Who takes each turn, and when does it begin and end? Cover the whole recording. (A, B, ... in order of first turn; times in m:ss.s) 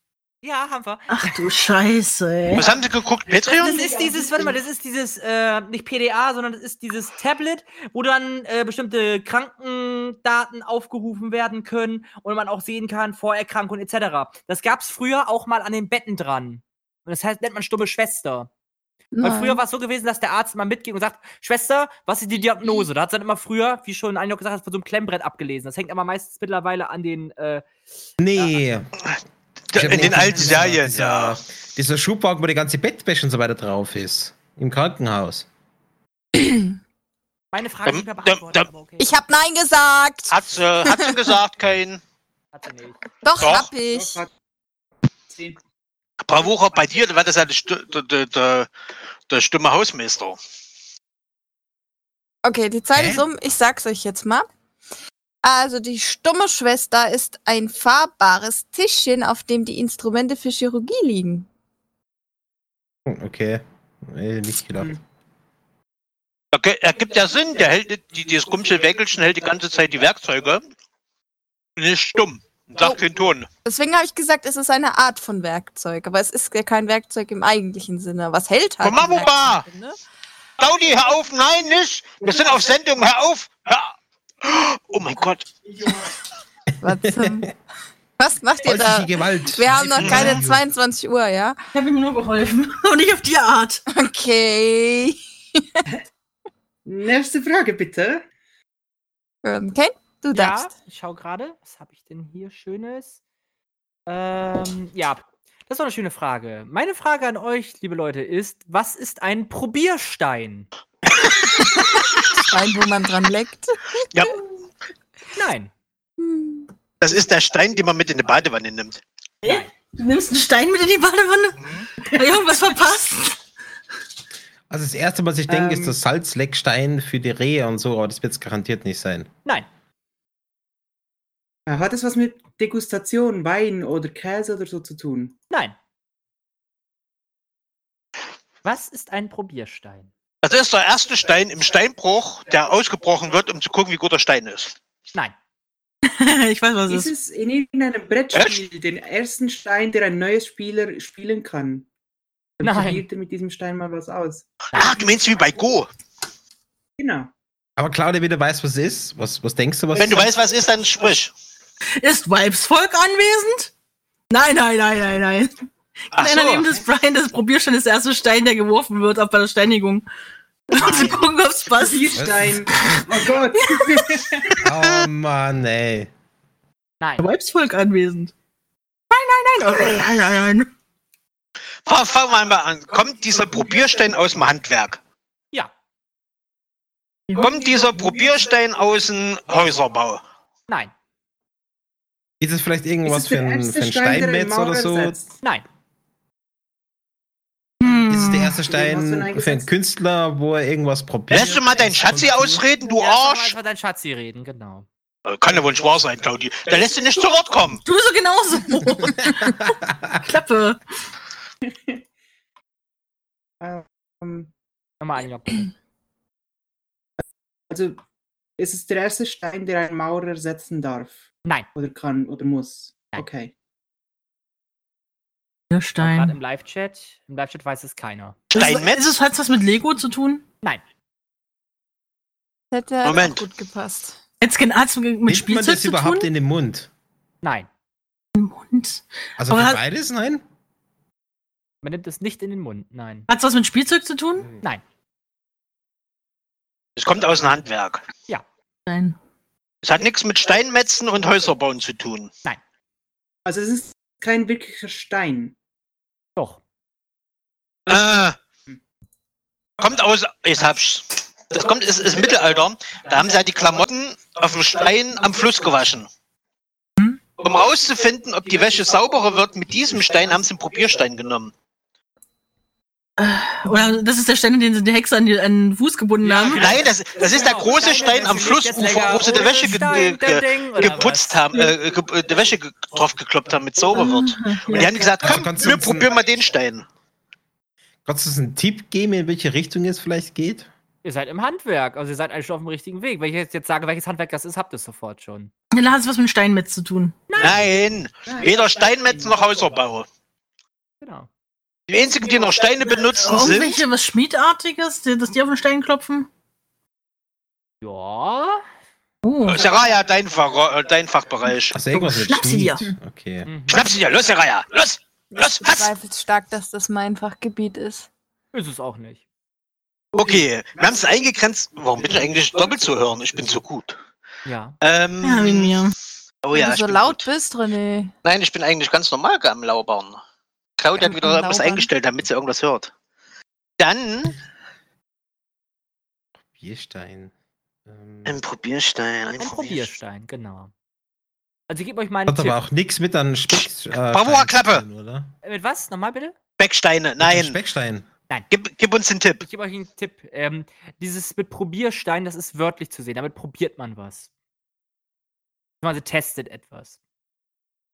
0:00.4-0:01.1 A
0:01.1-0:02.7 B
0:02.5-0:04.0 C
0:03.5-0:18.5 A
0:19.1-0:19.6 D
0:19.2-0:27.6 A
0:28.2-0:28.9 E
0:29.7-0:31.4 C
0:29.7-0:35.5 E
0:29.9-0:30.6 F
0:36.3-0:36.8 D
0:37.5-0:39.1 A
0:37.9-0:38.6 C
0:39.0-0:41.3 D
0:40.3-0:42.0 C
0:42.5-0:43.0 A
0:43.2-0:44.2 D
0:43.4-0:43.7 C
0:43.8-0:44.3 F
0:45.3-0:45.6 F
0:46.2-0:48.7 C
0:49.3-0:50.4 C
0:52.4-0:54.4 D
0:52.9-0:53.3 E
0:55.4-1:01.5 D
1:03.0-1:05.0 E
1:06.5-1:10.6 C
1:11.8-1:13.5 C
1:13.6-1:19.9 D
1:18.8-1:19.6 C
1:20.6-1:25.5 C
1:26.8-1:27.5 D
1:26.9-1:27.5 E
1:28.2-1:31.6 D
1:28.6-1:30.6 E
1:30.0-1:30.4 C
1:31.7-1:33.8 B
1:33.9-1:35.8 D
1:36.8-1:38.2 F
1:39.4-1:40.7 D
1:40.3-1:43.2 A
1:44.1-1:50.7 A
1:52.4-1:54.3 D
1:54.1-1:54.4 C
1:55.4-1:55.7 A
1:56.2-1:56.7 D
1:57.0-1:59.0 C
1:59.4-2:03.4 B
1:59.4-1:59.7 A
2:04.7-2:09.3 E
2:05.5-2:06.0 F
2:11.7-2:15.3 F
2:18.6-2:20.1 A
2:20.4-2:24.7 C
2:26.0-2:27.1 B
2:26.9-2:31.9 F
2:28.3-2:28.6 C
2:32.6-2:34.5 F
2:32.6-2:33.0 A
2:34.7-2:35.9 C
2:37.0-2:37.3 F
2:37.8-2:40.3 E
2:39.9-2:41.3 C
2:42.0-2:43.7 B
2:44.3-2:50.0 B
2:46.1-2:46.7 C
2:50.7-2:52.3 B
2:50.8-2:51.2 A
2:51.7-2:54.6 F
2:52.2-2:52.6 E
2:52.9-2:53.2 B
2:53.7-2:54.1 B
2:54.6-2:56.1 E
2:57.0-2:57.3 A
2:57.2-2:58.3 B
2:59.1-3:00.7 B
3:01.9-3:05.0 C
3:07.4-3:10.2 C
3:12.4-3:15.2 E
3:13.0-3:15.3 F
3:17.8-3:18.6 B
3:18.0-3:22.6 E
3:18.6-3:19.7 F
3:21.3-3:23.5 C
3:22.8-3:24.9 A
3:25.3-3:27.8 C
3:27.8-3:30.8 B
3:29.3-3:30.1 E
3:31.6-3:32.0 F
3:33.6-3:34.5 F
3:35.0-3:35.7 A
3:37.7-3:38.0 F
3:38.6-3:43.5 F
3:45.7-3:46.4 B
3:46.0-3:48.4 A
3:48.5-3:50.4 B
3:48.5-3:49.1 C
3:52.7-3:54.2 D
3:53.0-3:53.4 C
3:54.4-3:56.3 B
3:55.3-3:56.9 E
3:57.4-3:57.7 A
3:58.3-3:59.8 B
3:59.4-4:00.4 E
4:01.8-4:03.3 A
4:03.3-4:04.5 B
4:07.0-4:08.0 C
4:08.9-4:09.2 B
4:09.8-4:12.3 C
4:13.4-4:15.6 F
4:17.9-4:18.4 C
4:19.8-4:26.1 C
4:27.4-4:31.5 C
4:33.2-4:36.8 B
4:36.2-4:41.4 A
4:36.6-4:46.8 C
4:39.7-4:40.0 B
4:43.9-4:45.1 B
4:45.2-4:46.1 E
4:48.0-4:50.7 E
4:51.0-4:55.5 A
4:55.7-4:57.2 B
4:57.3-4:57.6 A
4:57.4-5:00.1 C
4:58.3-4:59.3 F
5:01.0-5:01.3 A
5:01.9-5:03.8 C
5:03.2-5:06.3 B
5:07.8-5:08.6 A
5:09.2-5:09.6 B
5:09.5-5:11.8 C
5:11.7-5:13.5 E
5:11.9-5:12.9 B
5:13.4-5:13.9 A
5:13.7-5:15.9 C
5:15.3-5:18.1 D
5:18.5-5:19.2 A
5:20.1-5:24.0 C
5:24.4-5:24.8 A
5:24.8-5:25.7 C
5:25.2-5:25.9 B
5:26.4-5:27.3 C
5:26.5-5:28.1 D
5:28.2-5:30.2 C
5:30.8-5:32.9 C
5:31.0-5:31.9 D
5:33.8-5:34.4 C
5:36.5-5:37.3 E
5:37.9-5:38.4 E
5:38.3-5:39.9 C
5:39.4-5:40.7 A
5:41.7-5:42.6 A
5:42.3-5:45.3 E
5:44.1-5:44.8 C
5:45.4-5:46.3 A
5:46.6-5:47.6 C
5:47.2-5:48.0 E
5:48.5-5:49.4 C
5:49.4-5:54.3 A
5:55.8-5:57.0 A